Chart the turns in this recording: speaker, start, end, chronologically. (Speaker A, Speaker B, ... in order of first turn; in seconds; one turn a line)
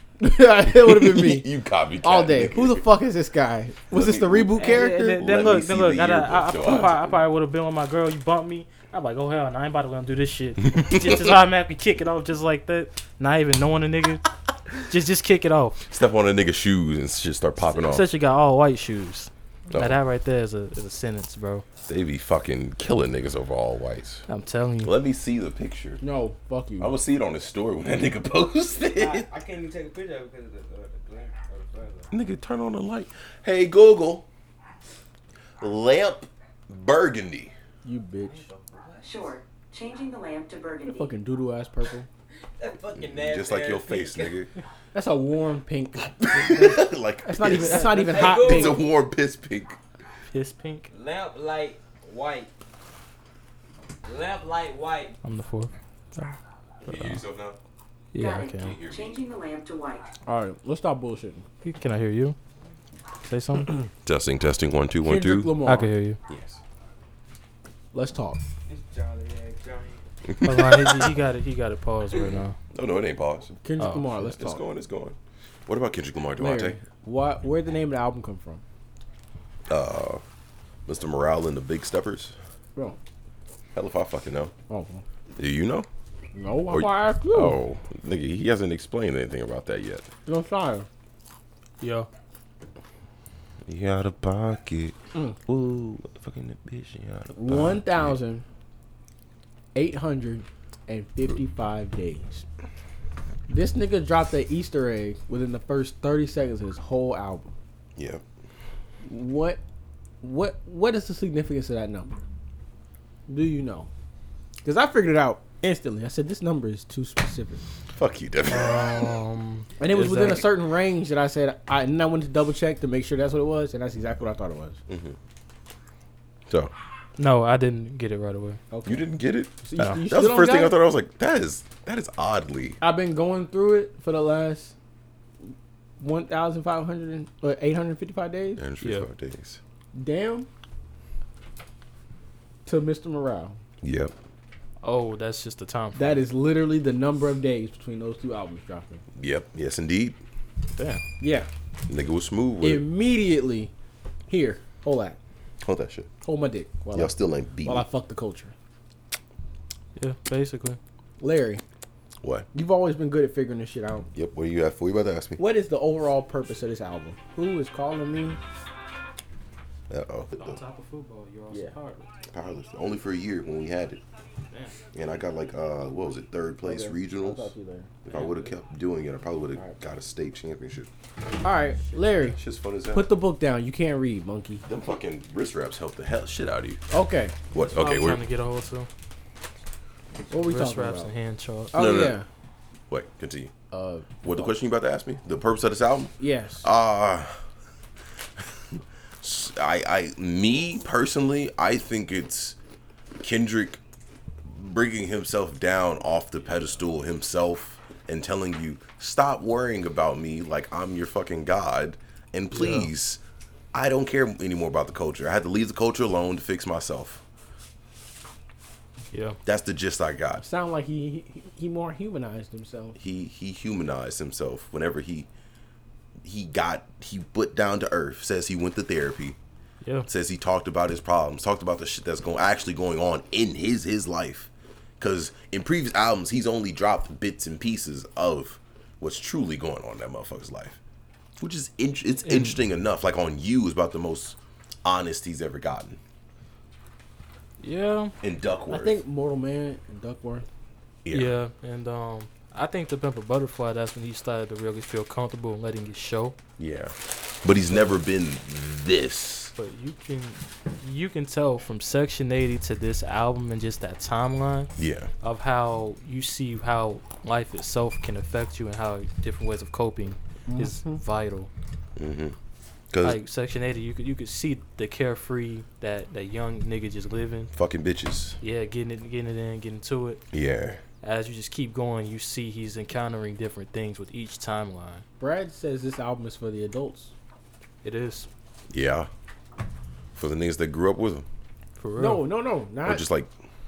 Speaker A: 0.2-1.5
Speaker B: 0.7-2.8
Speaker A: 2.0-5.2
Speaker B: 3.9-7.2
Speaker C: 4.6-15.8
Speaker B: 10.7-11.4
Speaker B: 15.9-18.1
Speaker C: 17.6-21.6
Speaker B: 19.7-20.0
Speaker B: 21.8-24.2
Speaker C: 24.3-24.9
Speaker B: 24.8-26.0
Speaker A: 26.0-26.9
Speaker B: 26.8-29.3
Speaker D: 28.7-32.1
Speaker B: 32.1-34.2
Speaker B: 35.6-37.5
Speaker A: 37.8-38.5
Speaker D: 38.2-39.4
Speaker E: 39.0-41.1
Speaker A: 40.8-42.1
Speaker D: 42.6-44.4
Speaker B: 43.0-44.5
Speaker A: 44.9-48.8
Speaker B: 46.2-49.8
Speaker D: 47.5-48.8
Speaker C: 50.3-50.9
Speaker D: 50.9-52.5
Speaker D: 54.0-55.1
Speaker C: 55.2-55.7
Speaker B: 56.8-57.6
Speaker C: 56.9-57.2
Speaker C: 58.1-58.7
Speaker E: 58.1-60.0
Speaker B: 58.5-59.2
Speaker A: 60.3-61.4
Speaker C: 61.6-62.4
Speaker C: 63.2-63.8
Speaker B: 64.0-65.5
Speaker A: 65.0-65.9
Speaker C: 65.6-66.2
Speaker B: 66.3-66.6
Speaker A: 67.9-68.4
Speaker D: 68.7-70.0
Speaker B: 70.3-71.1
Speaker C: 70.4-72.6
Speaker B: 72.2-73.6
Speaker A: 73.6-74.6
Speaker C: 73.8-74.0
Speaker B: 74.2-76.8
Speaker A: 76.4-78.6
Speaker B: 79.7-80.2
Speaker B: 80.8-82.3
Speaker B: 83.7-84.5
Speaker A: 84.7-85.0
Speaker B: 85.3-85.9
Speaker A: 86.3-87.6
Speaker B: 86.7-90.1
Speaker A: 90.2-90.9
Speaker C: 91.8-92.1
Speaker B: 93.7-98.2
Speaker A: 97.3-98.4
Speaker A: 99.7-102.4
Speaker A: 103.5-107.5
Speaker B: 108.0-108.2
Speaker A: 109.0-109.6
Speaker A: 110.2-112.2
Speaker A: 113.3-113.9
Speaker A: 114.6-117.6
Speaker B: 117.9-119.1
Speaker C: 118.5-120.5
Speaker A: 119.8-124.8
Speaker B: 124.9-125.2
Speaker C: 127.2-128.6
Speaker A: 128.7-129.1
Speaker B: 128.8-132.8
Speaker A: 129.6-130.8
Speaker A: 132.8-134.7
Speaker A: 136.0-138.6
Speaker B: 138.6-139.6
Speaker C: 138.8-139.1
Speaker A: 139.9-140.5
Speaker A: 142.7-143.6
Speaker B: 143.8-144.1
Speaker C: 144.8-146.2
Speaker A: 145.9-149.0
Speaker B: 149.2-150.2
Speaker C: 150.7-151.0
Speaker A: 151.2-151.5
Speaker B: 151.9-152.8
Speaker A: 152.6-153.7
Speaker A: 154.3-155.2
Speaker B: 155.6-156.1
Speaker A: 156.2-158.5
Speaker B: 156.9-157.8
Speaker C: 159.9-160.8
Speaker A: 161.2-161.6
Speaker B: 162.2-162.5
Speaker A: 162.5-164.1
Speaker B: 164.1-165.4
Speaker A: 165.4-168.4
Speaker B: 169.9-170.6
Speaker C: 170.4-172.2
Speaker A: 171.5-171.7
Speaker B: 172.3-174.0
Speaker C: 174.5-174.8
Speaker B: 174.9-177.5
Speaker A: 176.6-177.9
Speaker B: 178.0-180.9
Speaker C: 178.1-178.5
Speaker A: 181.4-182.4
Speaker C: 181.9-182.2
Speaker B: 182.2-183.1
Speaker A: 182.9-184.6
Speaker B: 184.7-186.8
Speaker A: 186.9-187.3
Speaker B: 187.5-188.2
Speaker C: 187.6-188.9
Speaker A: 190.3-191.1
Speaker C: 190.3-191.7
Speaker A: 191.7-192.3
Speaker B: 191.7-192.2
Speaker B: 192.9-193.5
Speaker A: 193.7-194.5
Speaker B: 194.2-197.4
Speaker A: 196.2-196.7
Speaker B: 198.4-202.6
Speaker B: 203.2-203.8
Speaker B: 204.4-213.2
Speaker C: 212.5-212.9
Speaker B: 213.7-217.2
Speaker C: 219.1-219.4
Speaker B: 219.4-220.4
Speaker A: 220.4-223.0
Speaker B: 223.0-225.3
Speaker B: 226.2-229.4
Speaker B: 230.1-240.8
Speaker B: 241.4-246.0
Speaker C: 242.2-242.6
Speaker C: 247.6-248.1
Speaker B: 248.2-249.0
Speaker A: 248.7-250.4
Speaker B: 251.0-251.4
Speaker C: 251.1-256.4
Speaker B: 256.6-259.5
Speaker C: 257.7-258.0
Speaker C: 259.6-271.5
Speaker B: 264.8-265.1
Speaker A: 270.5-271.0
Speaker B: 272.0-272.4
Speaker B: 272.9-273.2
Speaker C: 273.0-277.5
Speaker B: 277.5-278.4
Speaker C: 278.4-280.2
Speaker B: 280.3-280.8
Speaker C: 281.0-285.0
Speaker A: 285.2-287.1
Speaker C: 287.8-288.3
Speaker B: 288.7-289.1
Speaker B: 290.1-291.2
Speaker C: 291.8-292.2
Speaker A: 292.0-293.0
Speaker B: 292.9-293.3